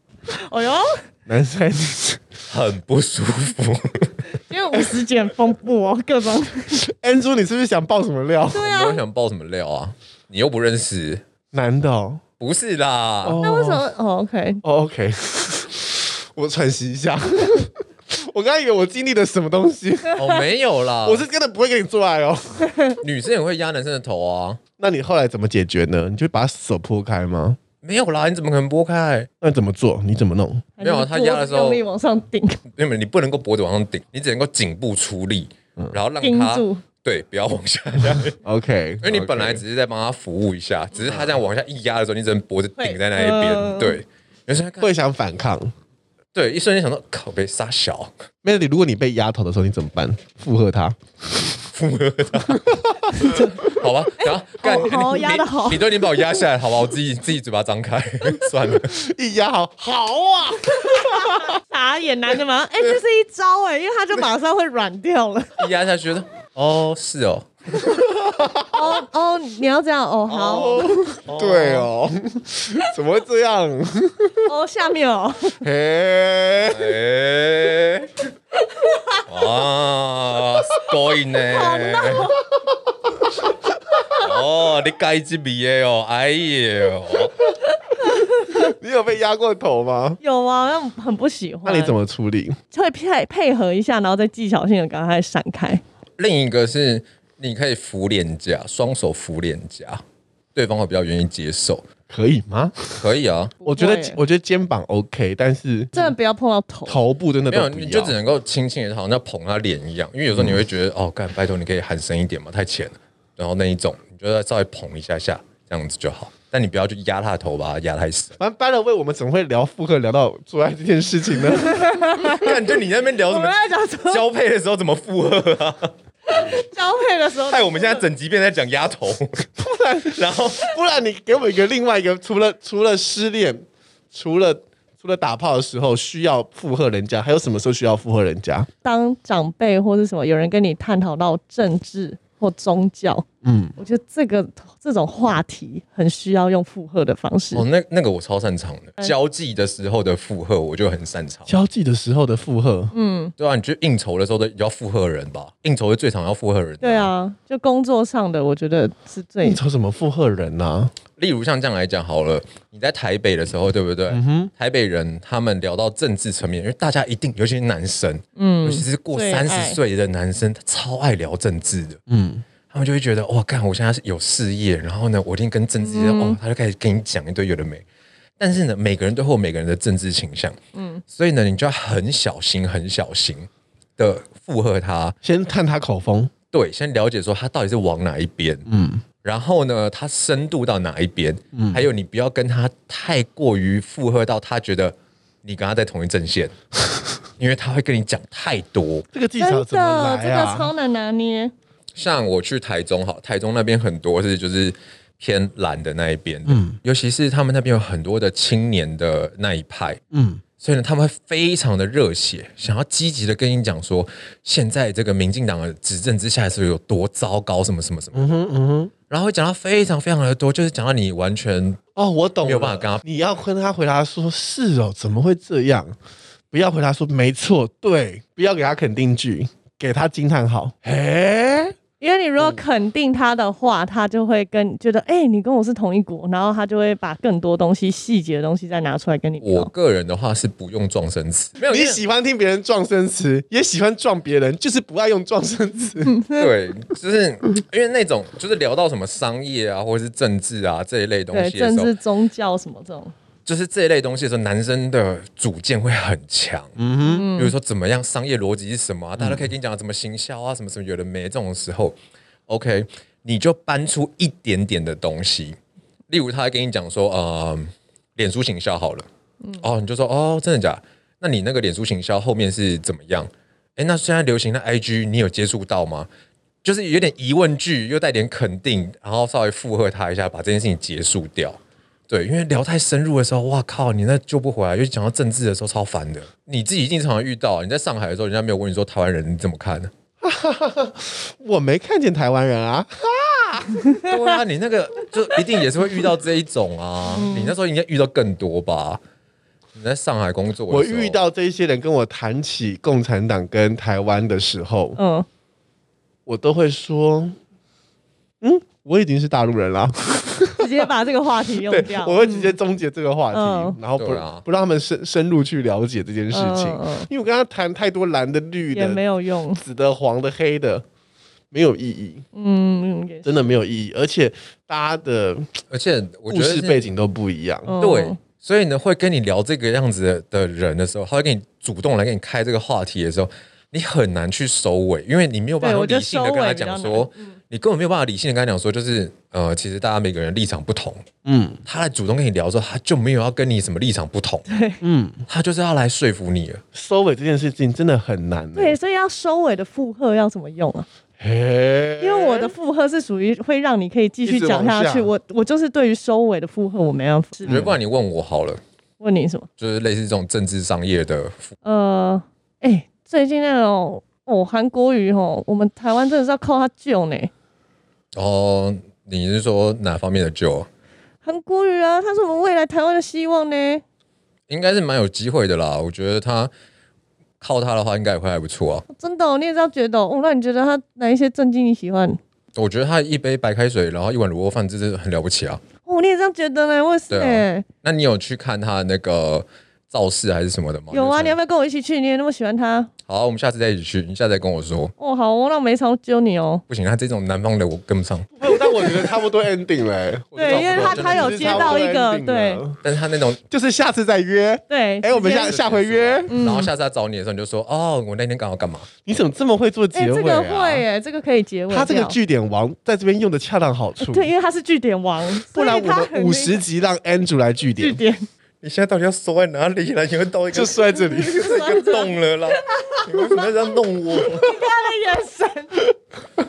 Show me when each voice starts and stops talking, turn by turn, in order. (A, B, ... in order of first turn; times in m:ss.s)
0:00.3-0:01.0 A
0:01.3-0:02.2 B
0:02.5-0:04.2 C
0:04.4-0:06.8 A
0:04.7-0:05.0 B
0:06.7-0:08.6 B
0:08.5-0:09.0 A
0:08.6-0:11.2 C
0:11.5-0:12.2 B
0:12.4-0:13.4 C
0:13.2-0:13.9 B
0:13.4-0:14.6 A
0:14.6-0:20.2 B
0:20.1-0:21.2 C
0:21.0-0:22.7 B
0:22.6-0:23.0 A
0:23.0-0:24.6 C
0:24.8-0:27.6 B
0:27.8-0:29.3 C
0:29.4-0:30.7 B
0:30.8-0:32.6 A
0:30.8-0:31.8 C
0:32.7-0:38.4 C
0:36.2-0:36.8 A
0:38.4-0:39.6 B
0:39.0-0:44.9 C
0:41.0-0:41.4 B
0:42.8-0:44.0 A
0:44.8-0:45.7 B
0:46.3-0:48.1 C
0:48.4-0:51.0 B
0:51.7-0:59.0 C
0:52.5-0:53.7 B
0:53.1-0:53.6 A
0:54.2-0:55.9 A
0:58.8-1:01.5 B
1:00.7-1:05.6 A
1:05.6-1:08.0 C
1:07.8-1:08.8 B
1:08.7-1:11.0 A
1:10.3-1:11.9 C
1:10.5-1:14.5 B
1:14.5-1:15.6 A
1:15.6-1:17.0 B
1:16.6-1:18.2 C
1:18.7-1:19.2 A
1:19.3-1:22.4 C
1:21.5-1:22.4 A
1:24.1-1:27.5 C
1:27.7-1:28.7 A
1:28.5-1:30.2 B
1:30.2-1:32.0 A
1:31.6-1:32.6 B
1:32.7-1:35.8 A
1:36.2-1:40.0 C
1:40.6-1:41.9 C
1:42.1-1:43.1 B
1:43.0-1:43.6 C
1:43.6-1:44.2 A
1:43.7-1:46.1 B
1:45.9-1:47.0 A
1:46.9-1:48.2 B
1:47.5-1:58.4 C
1:50.3-1:50.6 B
1:58.4-2:02.0 B
2:01.6-2:02.6 A
2:02.2-2:05.9 C
2:03.3-2:04.2 A
2:06.3-2:08.0 A
2:07.5-2:09.5 C
2:09.6-2:18.7 B
2:10.1-2:10.7 C
2:18.8-2:23.2 A
2:23.4-2:23.8 B
2:23.8-2:27.6 A
2:27.5-2:31.6 C
2:31.5-2:32.9 B
2:32.9-2:33.3 A
2:33.4-2:37.1 C
2:36.8-2:39.6 A
2:39.4-2:40.9 B
2:41.2-2:52.0 C
2:44.1-2:44.5 B
2:48.4-2:49.8 A
2:52.1-2:52.4 B
2:52.7-2:57.8 C
2:55.8-2:56.4 A
2:58.4-3:05.2 C
3:00.7-3:01.0 A
3:05.2-3:06.3 B
3:06.5-3:08.7 C
3:08.7-3:09.0 B
3:09.2-3:16.6 C
3:11.5-3:11.9 B
3:17.4-3:19.1 C
3:19.1-3:20.7 B
3:19.4-3:21.5 A
3:22.0-3:30.0 C
3:26.5-3:26.8 B
3:30.1-3:30.4 B
3:30.6-3:38.4 C
3:38.1-3:38.9 B
3:39.1-3:41.8 C
3:42.0-3:46.0 B
3:42.4-3:43.0 C
3:46.5-3:51.8 B
3:52.0-3:59.7 A
3:59.4-4:02.0 C
4:01.7-4:06.2 B
4:06.0-4:06.5 A
4:06.4-4:11.9 C
4:11.3-4:13.1 A
4:13.5-4:16.8 C
4:16.8-4:17.3 B
4:17.0-4:17.5 A
4:17.4-4:22.0 C
4:19.2-4:19.5 B
4:22.5-4:25.6 C
4:26.1-4:29.1 C
4:29.6-4:36.1 C
4:36.6-4:49.9 C
4:50.2-4:53.8 B
4:53.9-4:54.2 A
4:54.0-4:59.0 C
4:57.1-4:57.5 A
4:59.8-5:01.2 C
5:00.7-5:05.0 B
5:05.0-5:05.3 A
5:06.3-5:07.4 B
5:08.4-5:10.9 B
5:10.6-5:12.6 A
5:11.7-5:19.0 B
5:13.3-5:13.8 A
5:14.0-5:14.4 C
5:16.3-5:17.1 A
5:18.7-5:19.6 A
5:19.6-5:20.8 B
5:21.5-5:22.2 B
5:22.3-5:23.5 A
5:23.2-5:25.5 B
5:25.7-5:26.8 C
5:26.3-5:27.8 B
5:27.7-5:28.2 A
5:27.8-5:41.0 C
5:35.6-5:37.3 A
5:41.2-5:41.6 B
5:41.7-5:44.5 C
5:44.5-5:44.8 A
5:44.8-5:45.2 B
5:45.3-5:46.6 C
5:46.7-5:48.8 B
5:48.6-5:50.9 A
5:51.2-5:52.5 B
5:52.0-5:57.7 A
5:54.2-5:55.1 B
5:57.4-5:57.8 B
5:57.4-5:58.6 C
5:59.0-5:59.5 A
5:59.6-6:01.5 C
6:01.6-6:07.3 A
6:08.2-6:10.7 C
6:11.2-6:13.8 A
6:14.5-6:16.5 C
6:17.4-6:18.9 C
6:18.9-6:22.2 A
6:22.6-6:25.6 C
6:25.9-6:27.7 A
6:27.1-6:31.4 C
6:30.9-6:32.9 A
6:33.1-6:34.9 C
6:35.0-6:36.6 A
6:36.7-6:38.3 C
6:38.4-6:42.8 B
6:40.4-6:42.6 A
6:40.4-6:41.9 C
6:42.8-6:43.4 C
6:43.5-6:46.3 B
6:44.7-6:45.5 A
6:45.2-6:48.9 C
6:46.3-6:46.7 A
6:49.0-6:50.8 B
6:49.9-6:52.2 A
6:51.7-6:54.3 B
6:54.0-6:56.6 A
6:55.4-6:58.0 B
6:57.8-6:58.3 A
6:58.6-7:04.6 C
7:00.5-7:01.5 B
7:01.1-7:02.1 A
7:02.7-7:03.5 A
7:04.3-7:05.9 A